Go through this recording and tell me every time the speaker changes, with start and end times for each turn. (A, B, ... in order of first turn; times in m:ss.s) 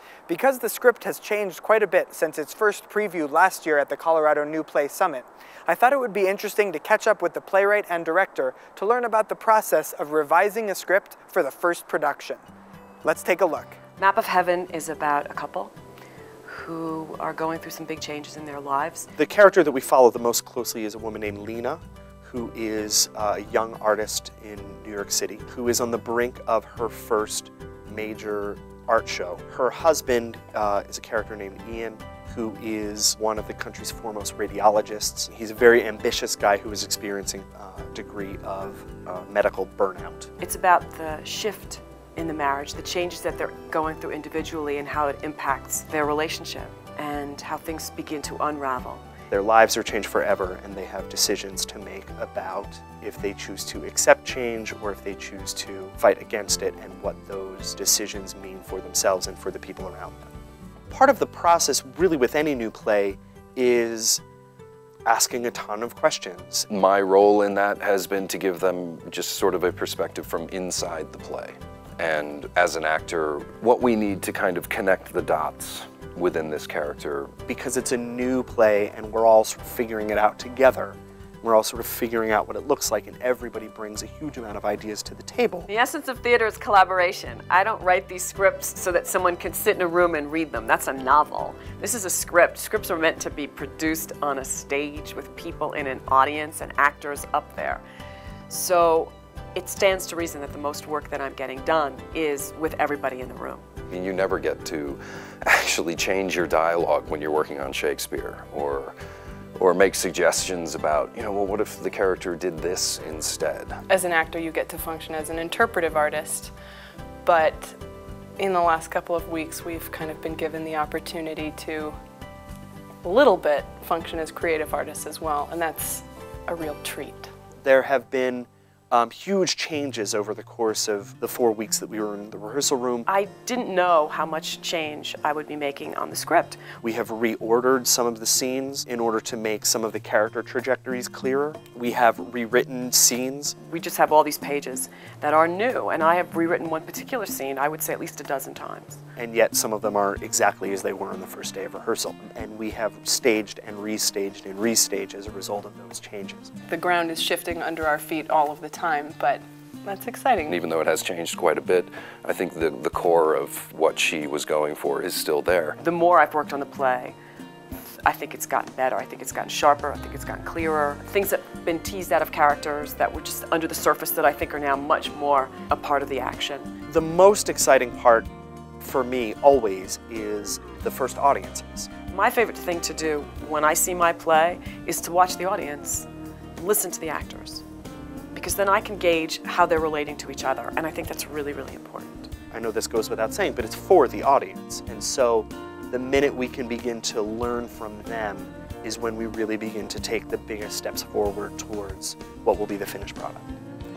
0:00.3-0:12.4 A
0:13.0-0:13.8 A
0:14.0-0:15.7 B
0:16.5-0:19.1 B
0:19.2-0:40.3 C
0:40.4-0:49.0 B
0:49.3-1:00.3 C
1:00.9-1:04.2 C
1:05.1-1:06.7 C
1:06.7-1:17.3 D
1:17.5-1:25.7 C
1:25.7-1:37.8 B
1:38.5-1:43.7 B
1:43.9-1:48.9 D
1:49.6-1:53.8 D
1:53.9-1:56.5 E
1:57.2-1:57.8 E
1:58.4-2:02.0 E
2:03.0-2:07.3 E
2:07.6-2:13.1 C
2:13.1-2:16.6 B
2:16.8-2:23.6 C
2:23.6-2:29.0 B
2:29.2-2:36.5 C
2:36.7-2:40.6 E
2:40.5-2:45.8 D
2:45.8-2:47.2 B
2:48.0-2:56.7 B
2:56.9-2:58.3 C
2:58.8-3:01.9 C
3:02.1-3:07.6 B
3:08.3-3:12.3 B
3:12.5-3:23.4 C